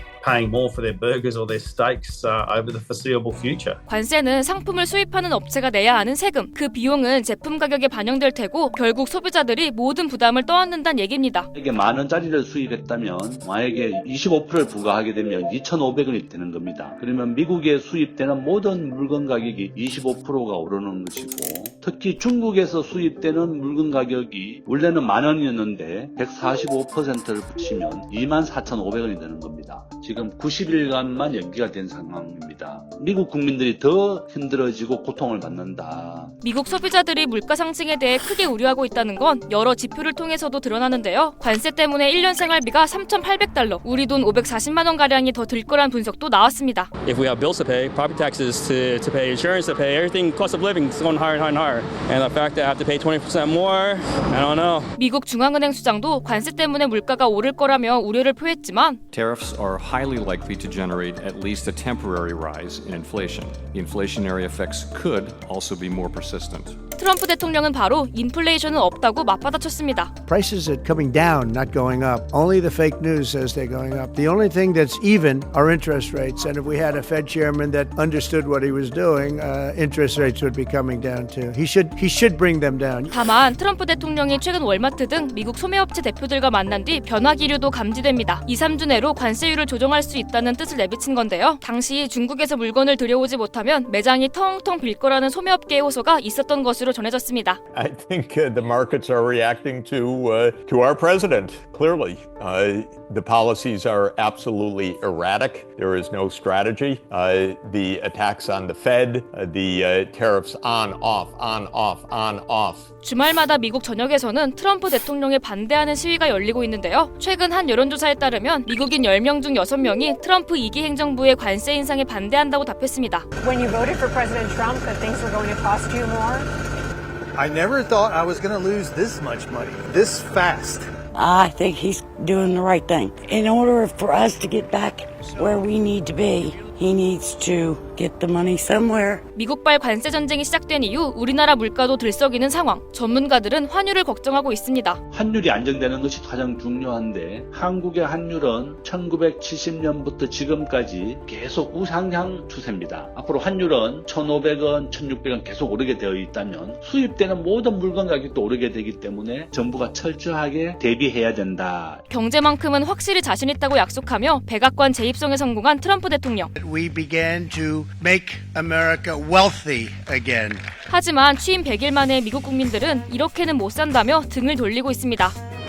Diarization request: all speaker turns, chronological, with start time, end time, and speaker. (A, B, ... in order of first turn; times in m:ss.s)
0:00.2-0:03.8 A
0:03.9-0:11.5 B
0:11.5-0:36.3 C
0:36.4-0:46.9 B
0:47.0-0:54.9 D
0:55.0-0:59.0 B
0:59.1-1:06.8 E
1:07.0-1:10.1 B
1:10.3-1:23.2 F
1:23.1-1:37.6 B
1:37.7-1:52.8 G
1:53.0-2:03.2 B
2:03.4-2:06.5 H
2:07.3-2:10.9 I
2:11.1-2:19.2 J
2:19.3-2:25.0 B
2:25.1-2:42.0 C
2:42.1-2:46.5 B
2:46.5-2:50.6 F
2:50.9-2:55.4 B